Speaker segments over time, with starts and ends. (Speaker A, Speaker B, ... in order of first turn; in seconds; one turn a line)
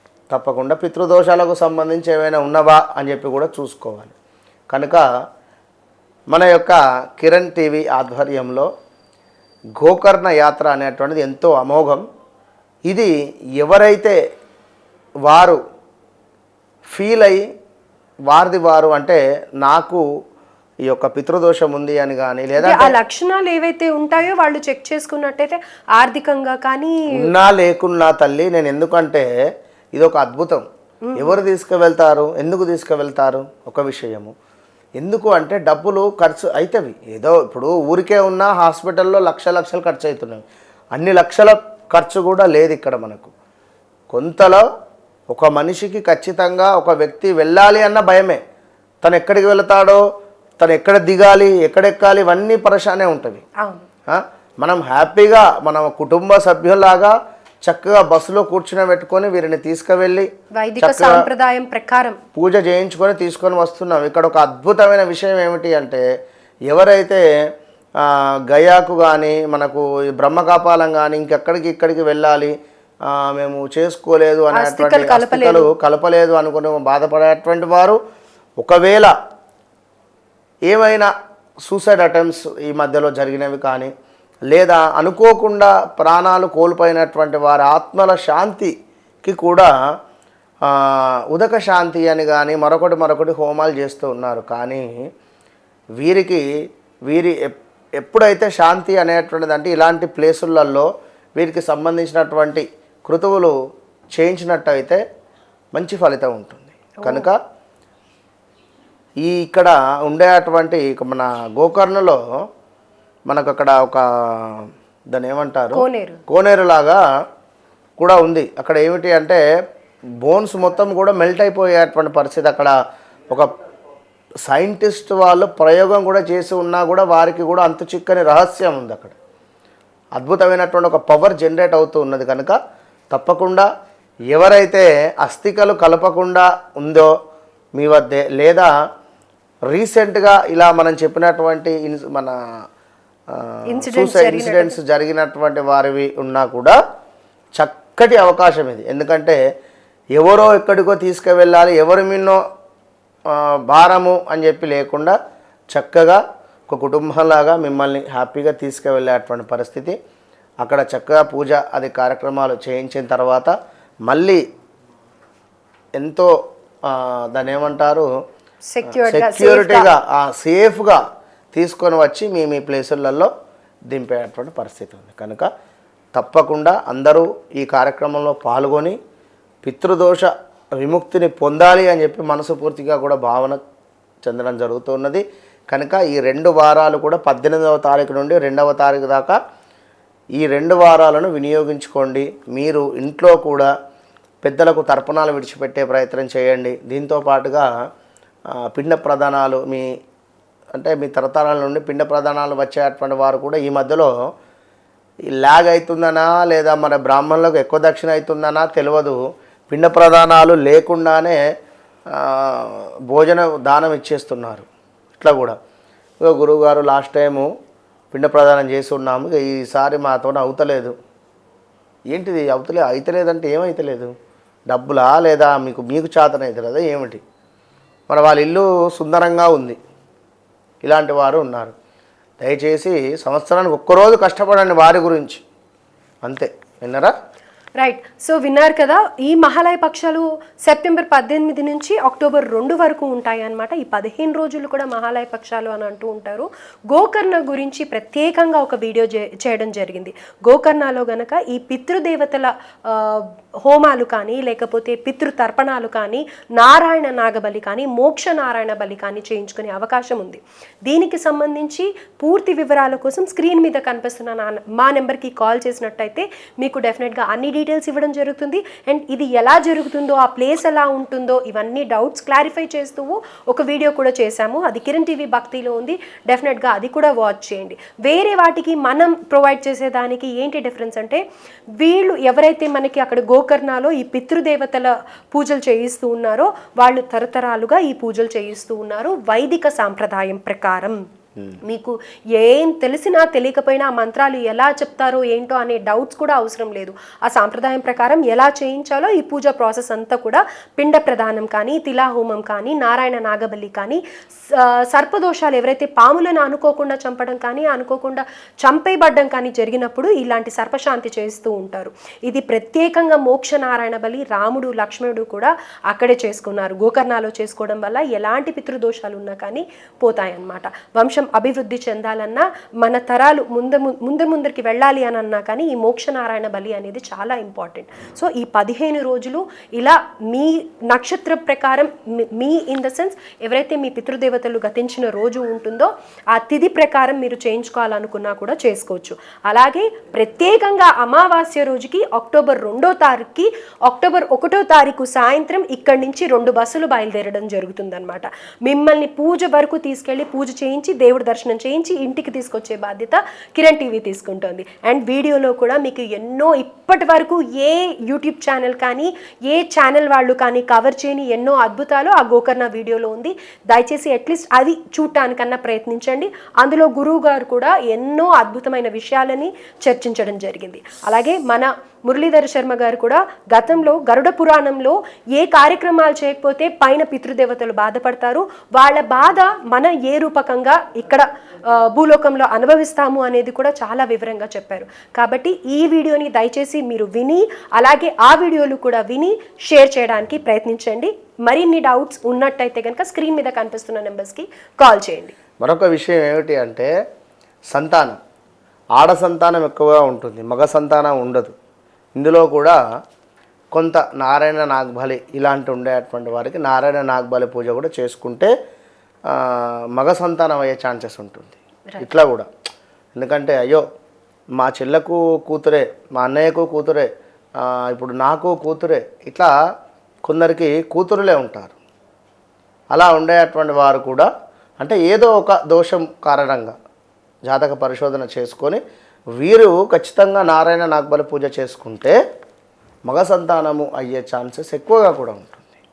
Speaker A: 0.3-4.1
Speaker A: 4.7-5.0
Speaker A: 6.3-8.7
Speaker A: 9.8-12.0
Speaker A: 12.9-14.2
Speaker A: 15.2-15.6
Speaker A: 16.9-17.4
Speaker A: 18.3-20.0
Speaker A: 20.9-22.9
Speaker B: 22.6-27.1
Speaker A: 27.1-29.3
Speaker A: 29.9-30.6
Speaker B: 31.1-31.4
Speaker A: 31.1-34.3
Speaker A: 35.0-40.4
Speaker A: 40.9-43.3
Speaker A: 44.1-44.6
Speaker A: 45.3-48.4
Speaker A: 49.0-50.0
Speaker A: 50.6-53.4
Speaker B: 53.6-53.9
Speaker A: 54.1-60.3
Speaker B: 60.5-62.2
Speaker A: 60.8-61.2
Speaker A: 62.3-66.0
Speaker A: 66.7-67.2
Speaker A: 68.0-72.5
Speaker A: 73.1-78.0
Speaker B: 74.5-75.7
Speaker A: 78.6-79.1
Speaker A: 80.7-81.1
Speaker A: 81.6-83.9
Speaker A: 84.5-88.7
Speaker A: 89.2-89.7
Speaker A: 90.6-95.1
Speaker A: 96.0-96.5
Speaker A: 97.1-103.5
Speaker A: 104.1-105.0
Speaker A: 105.7-107.4
Speaker B: 107.0-107.3
Speaker A: 109.2-112.2
Speaker A: 113.3-117.0
Speaker B: 115.7-116.2
Speaker A: 118.0-119.4
Speaker A: 120.2-122.7
Speaker A: 124.5-129.2
Speaker A: 130.2-132.6
Speaker A: 133.1-133.7
Speaker A: 134.3-137.1
Speaker A: 137.8-138.7
Speaker A: 139.7-142.3
Speaker A: 143.3-146.8
Speaker B: 143.7-144.8
Speaker A: 147.6-149.4
Speaker A: 150.2-152.4
Speaker A: 153.3-155.2
Speaker A: 155.7-159.9
Speaker A: 160.6-163.5
Speaker A: 164.1-164.4
Speaker A: 166.0-166.3
Speaker A: 166.8-168.1
Speaker B: 168.7-169.9
Speaker A: 169.0-171.0
Speaker A: 171.5-173.3
Speaker A: 173.9-175.5
Speaker A: 176.1-179.0
Speaker A: 179.6-183.6
Speaker A: 184.2-189.4
Speaker A: 190.4-193.7
Speaker A: 194.4-197.7
Speaker A: 198.5-199.9
Speaker A: 200.7-204.1
Speaker A: 205.3-209.2
Speaker A: 209.7-211.4
Speaker A: 212.1-214.7
Speaker A: 215.2-215.6
Speaker A: 216.2-217.5
Speaker A: 218.1-220.9
Speaker A: 222.1-224.1
Speaker A: 224.7-227.2
Speaker A: 228.1-229.8
Speaker A: 230.8-231.7
Speaker A: 232.4-235.4
Speaker A: 236.2-237.1
Speaker B: 237.8-281.2
Speaker B: 281.8-291.0
Speaker B: 291.6-304.0
Speaker B: 304.6-395.3
Speaker A: 395.6-396.9
Speaker A: 397.7-398.2
Speaker A: 399.0-401.5
Speaker A: 402.2-402.8
Speaker A: 403.7-408.5
Speaker A: 409.3-412.5
Speaker B: 411.9-412.2
Speaker A: 413.1-413.8
Speaker A: 414.6-417.1
Speaker A: 417.6-419.5
Speaker A: 420.2-421.7
Speaker A: 422.9-424.3
Speaker A: 424.8-426.7
Speaker A: 427.5-428.8
Speaker A: 429.4-432.1
Speaker A: 433.1-435.6